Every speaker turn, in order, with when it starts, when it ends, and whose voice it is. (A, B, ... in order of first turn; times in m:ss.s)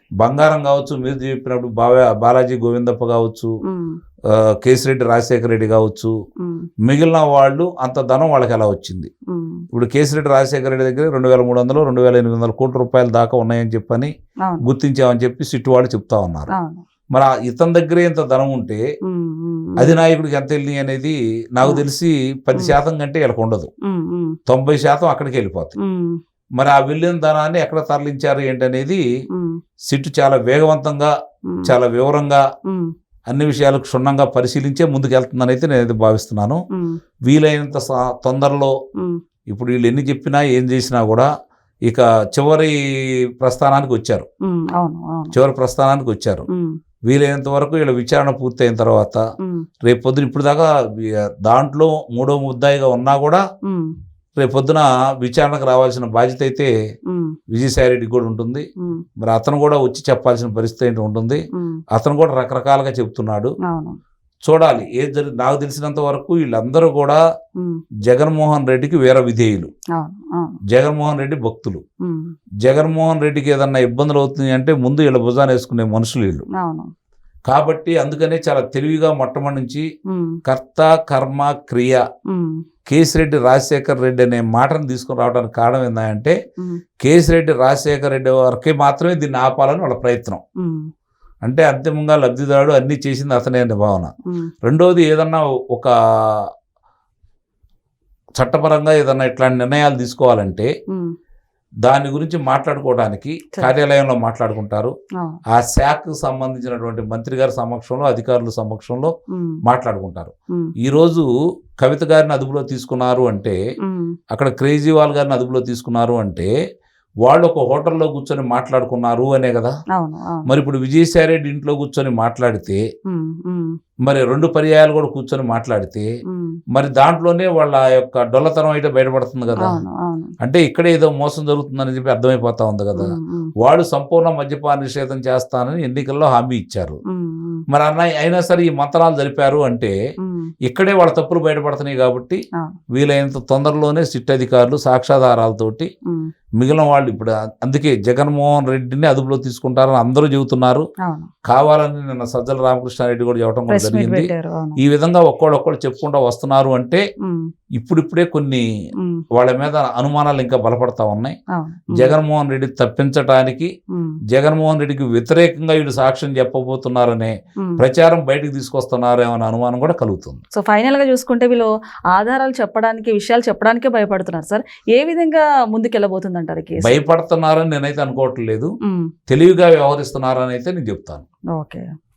0:00.2-0:03.5 A
0:03.7-0:04.0 B
0:04.3-0:06.1 A
0:06.4-0:06.7 B
0:06.8-0:09.1 A
0:09.3-0:09.6 B
0:09.7-0:14.1 A
0:14.4-0:14.7 B
0:14.6-0:16.5 A
0:16.5-0:16.8 B
0:17.1-0:18.8 A
0:19.1-0:20.0 B
0:19.8-0:23.7 A
0:23.8-0:24.4 B
0:24.5-0:25.8 A
0:25.8-0:26.2 B
0:26.6-0:29.0 A
0:29.3-0:29.6 B
0:29.9-0:31.1 A
0:31.5-0:31.7 B
0:31.6-0:32.4 A
0:32.7-0:32.9 B
0:33.3-0:36.6 A
0:37.3-0:38.7 A
0:39.5-0:41.3 A
0:41.9-0:42.8 A
0:43.4-0:44.3 A
0:44.5-0:45.4 B
0:45.3-0:46.5 A
0:47.1-0:49.2 A
0:49.8-0:53.4 A
0:53.7-0:53.9 B
0:54.4-0:56.7 A
0:57.1-0:57.4 B
0:57.5-0:58.7 A
0:59.2-1:03.6 A
1:01.5-1:01.8 B
1:03.7-1:04.0 B
1:04.4-1:07.2 A
1:08.1-1:09.7 A
1:10.0-1:10.6 B
1:10.7-1:11.8 A
1:12.0-1:12.3 B
1:12.6-1:16.5 A
1:16.6-1:16.9 B
1:17.5-1:19.9 A
1:20.1-1:20.4 B
1:20.4-1:22.0 A
1:22.3-1:22.6 B
1:22.9-1:26.4 A
1:27.0-1:30.4 A
1:30.6-1:30.9 B
1:31.4-1:34.1 A
1:34.6-1:36.5 A
1:38.4-1:40.7 A
1:41.8-1:44.9 A
1:45.5-1:49.1 A
1:49.3-1:49.6 B
1:49.6-1:51.3 A
1:51.8-1:53.6 A
1:53.8-1:54.2 B
1:54.3-1:56.5 A
1:57.2-1:59.7 A
2:00.0-2:00.5 B
2:00.5-2:02.8 A
2:03.1-2:03.8 B
2:04.0-2:06.1 A
2:06.3-2:06.6 B
2:06.7-2:09.8 A
2:09.6-2:10.3 B
2:10.4-2:17.0 A
2:13.0-2:13.5 B
2:17.1-2:17.6 B
2:17.7-2:20.0 A
2:20.2-2:20.5 B
2:20.6-2:22.4 A
2:22.9-2:25.9 A
2:26.6-2:30.8 A
2:31.0-2:31.3 B
2:31.5-2:37.0 A
2:33.7-2:34.8 B
2:37.2-2:37.5 B
2:37.8-2:38.6 A
2:39.3-2:41.4 A
2:41.5-2:42.2 B
2:41.9-2:43.7 A
2:43.9-2:44.2 B
2:44.3-2:50.4 A
2:50.6-2:57.0 B
2:56.8-2:58.7 A
2:58.9-2:59.1 B
2:59.3-3:01.2 A
3:01.5-3:01.9 B